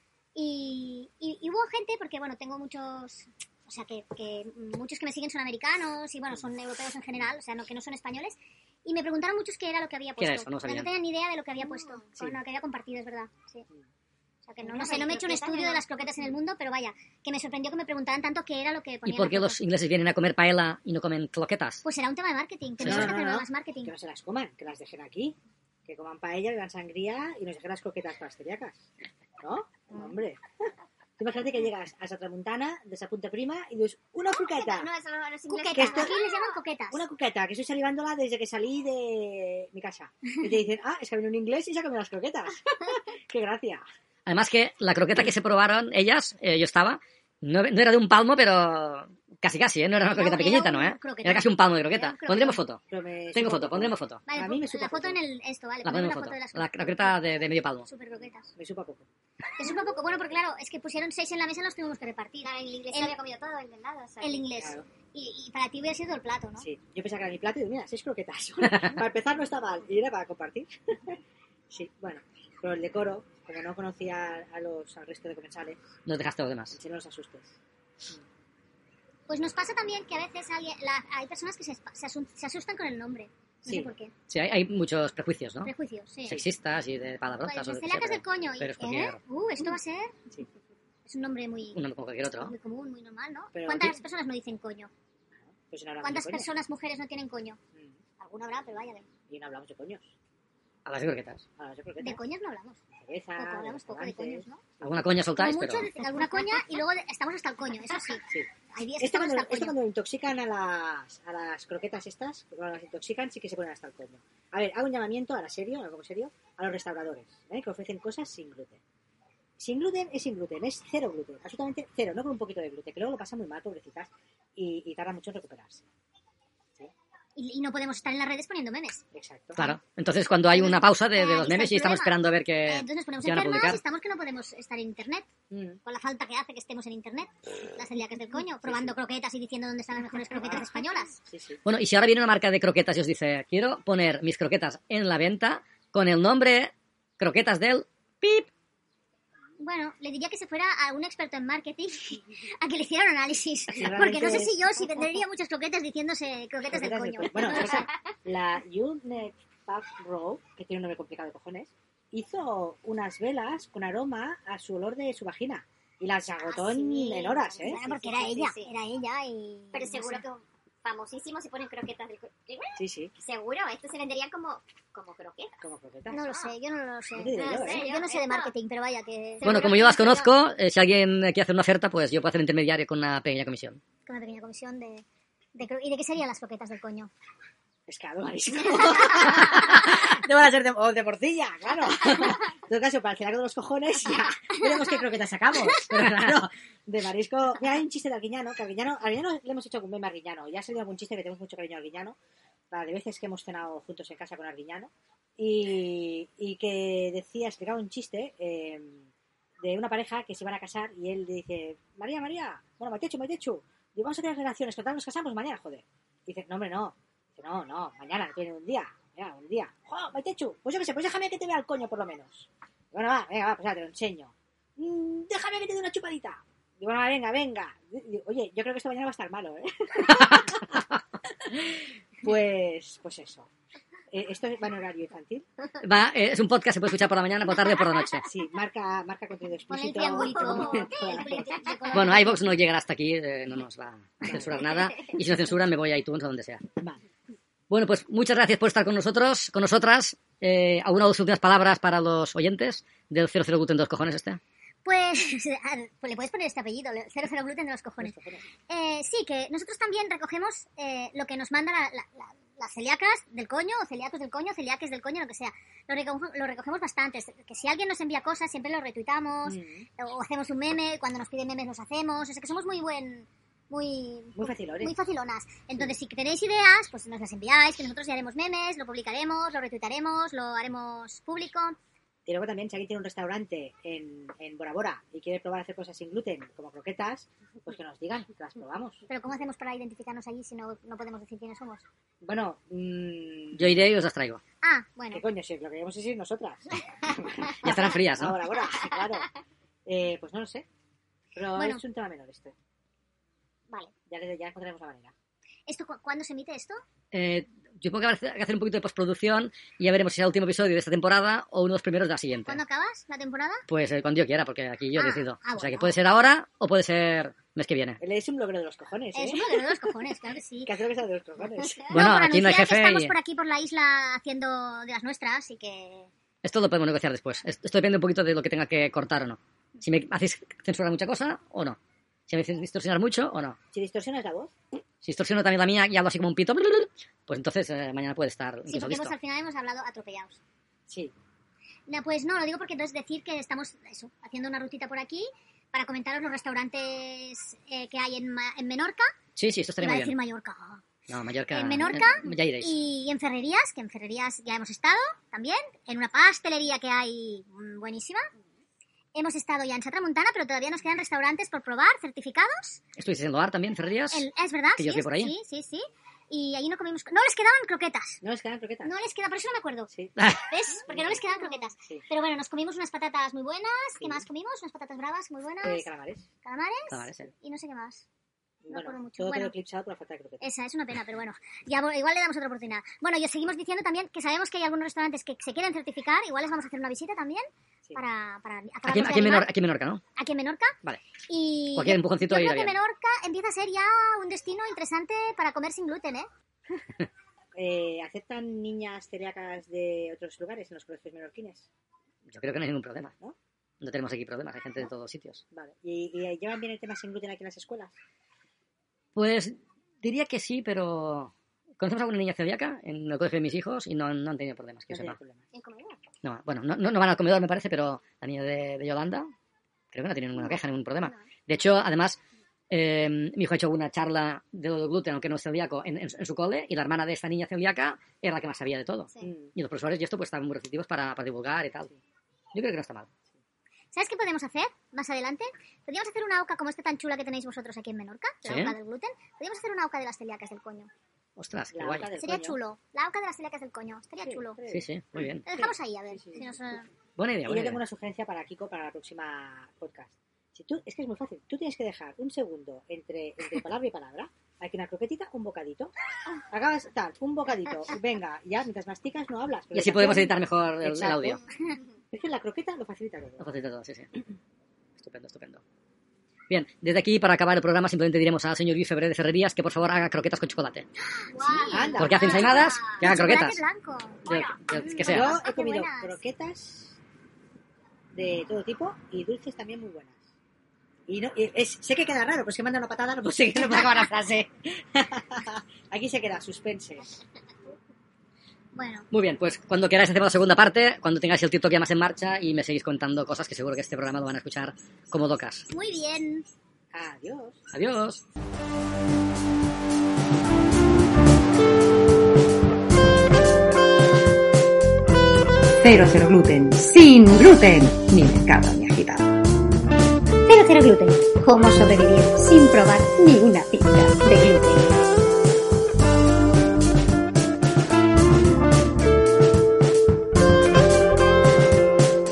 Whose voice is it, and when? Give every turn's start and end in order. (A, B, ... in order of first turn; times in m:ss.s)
0:00.4-0:13.7 A
0:10.2-0:10.9 B
0:11.6-0:12.1 C
0:14.5-0:19.6 A
0:14.6-0:15.8 C
0:19.0-0:21.8 B
0:21.8-0:23.9 A
0:22.8-0:23.1 B
0:22.8-0:28.9 D
0:29.4-0:30.4 D
0:31.2-0:34.9 D
0:34.3-0:36.6 C
0:35.5-0:37.0 A
0:35.7-0:36.2 D
0:36.9-0:43.8 D
0:44.3-0:52.8 B
0:50.1-0:52.6 A
0:52.9-0:55.2 D
0:53.3-0:54.2 B
0:54.3-0:57.2 A
0:55.8-0:57.9 B
0:57.8-0:58.5 A
0:58.5-0:59.1 D
0:59.6-1:03.2 A
1:02.4-1:04.5 C
1:04.2-1:06.7 A
1:04.6-1:04.9 D
1:06.6-1:15.8 D
1:16.1-1:16.8 B
1:16.7-1:18.2 D
1:19.3-1:24.1 A
1:23.6-1:23.9 D
1:24.3-1:25.7 B
1:25.6-1:26.4 A
1:26.3-1:29.2 B
1:27.4-1:30.2 A
1:31.1-1:34.9 A
1:31.8-1:32.5 B
1:33.5-1:34.0 D
1:35.4-1:36.5 D
1:36.0-1:37.6 A
1:37.7-1:38.0 D
1:38.2-1:39.1 A
1:39.3-1:40.1 D
1:40.8-1:41.4 B
1:41.6-1:42.2 D
1:42.0-1:42.8 A
1:42.9-1:45.1 D
1:43.4-1:44.6 A
1:44.8-1:45.9 B
1:45.4-1:49.8 A
1:46.2-1:46.6 C
1:48.3-1:58.8 D
1:59.6-2:05.9 D
2:07.4-2:09.0 A
2:09.1-2:09.8 D
2:09.6-2:13.8 B
2:10.5-2:15.3 A
2:15.5-2:15.8 D
2:15.8-2:21.2 A
2:18.6-2:19.0 D
2:20.4-2:21.6 D
2:21.7-2:28.5 B
2:29.6-2:37.9 A
2:33.8-2:34.9 D
2:36.6-2:47.9 D
2:37.6-2:37.9 C
2:46.4-2:48.7 C
2:47.6-2:50.2 A
2:49.7-2:55.6 C
2:52.8-2:53.1 D
2:55.6-2:56.3 D
2:56.1-2:59.5 A
2:56.2-2:56.5 C
2:57.2-2:57.9 D
2:57.3-2:58.5 C
2:59.4-3:00.3 C
2:59.4-3:03.8 B
3:04.1-3:05.0 A
3:05.6-3:07.1 A
3:07.9-3:22.2 D
3:22.7-3:29.1 D
3:29.6-3:50.8 D
3:50.0-3:50.8 B
3:51.4-3:53.5 D
3:54.1-3:55.4 D
3:55.8-3:58.3 B
3:58.2-4:01.7 D
3:59.7-4:02.4 A
4:00.1-4:01.9 C
4:01.9-4:06.6 B
4:04.2-4:04.6 D
4:06.8-4:07.0 D
4:07.7-4:14.4 B
4:14.8-4:18.2 A
4:18.0-4:18.5 D
4:18.7-4:41.8 A
4:29.4-4:29.9 D
4:34.4-4:35.0 D
4:42.3-4:49.0 D
4:49.1-4:51.8 A
4:52.2-4:53.8 D
4:53.5-4:54.4 B
4:54.6-4:55.2 A
4:55.1-4:59.3 D
4:57.6-4:58.4 B
4:59.9-5:00.7 D
5:01.4-5:02.6 D
5:01.6-5:01.8 A
5:04.1-5:05.1 D
5:05.7-5:06.8 A
5:07.1-5:12.6 B
5:12.5-5:13.6 A
5:13.7-5:18.0 B
5:15.0-5:16.0 A
5:18.0-5:19.7 D
5:19.1-5:20.7 A
5:20.6-5:22.0 D
5:21.9-5:26.1 A
5:21.9-5:23.2 B
5:26.4-5:33.6 B
5:33.7-5:34.5 D
5:35.0-5:39.1 B
5:38.7-5:40.4 A
5:40.9-5:41.1 D
5:41.9-5:49.2 A
5:49.4-5:50.2 B
5:49.8-5:50.8 A
5:51.1-5:52.7 B
5:51.5-5:58.3 A
5:59.2-6:02.8 A
6:03.0-6:05.3 B
6:04.1-6:08.2 A
6:08.2-6:08.9 D
6:08.8-6:09.9 A
6:09.9-6:10.2 D
6:10.2-6:10.4 B
6:10.5-6:15.9 A
6:10.9-6:11.2 D
6:15.6-6:16.3 D
6:16.4-6:18.0 A
6:16.9-6:17.3 B
6:18.6-6:20.5 D
6:18.7-6:19.6 A
6:20.4-6:29.5 A
6:28.8-6:30.0 B
6:30.2-6:30.8 A
6:31.3-6:36.3 A
6:31.7-6:32.8 B
6:37.6-6:41.7 D
6:42.3-6:43.1 B
6:43.8-6:45.4 B
6:45.5-6:48.0 D
6:49.2-6:55.2 B
6:54.9-6:55.4 D
6:55.5-6:56.0 C
6:56.2-6:59.3 B
6:59.9-7:02.2 B
7:00.4-7:01.2 C
7:02.7-7:11.9 B
7:09.2-7:09.5 D
7:12.5-7:13.1 B
7:13.9-7:20.9 A
7:18.5-7:18.7 B
7:21.4-7:22.1 B
7:21.7-7:22.6 D
7:22.2-7:24.6 A
7:24.2-7:24.9 D
7:24.7-7:25.4 B
7:25.4-7:26.5 D
7:25.5-7:26.9 A
7:27.2-7:27.8 B
7:27.5-7:35.9 D
7:36.5-7:41.4 D
7:39.7-7:41.4 B
7:42.1-7:43.5 D
7:43.4-7:44.1 B
7:45.0-7:45.6 B
7:46.5-7:50.9 B
7:51.0-7:56.2 A
7:51.3-7:52.8 C
7:51.7-7:52.6 D
7:52.0-7:53.6 B
7:54.3-7:55.4 B
7:55.0-7:57.0 D
7:58.1-8:00.2 D
8:01.1-8:07.2 D
8:08.7-8:09.1 A
8:09.1-8:15.7 B
8:15.7-8:16.5 A
8:16.9-8:17.6 D
8:17.7-8:18.2 B
8:25.8-8:29.4 E
8:30.5-8:34.9 E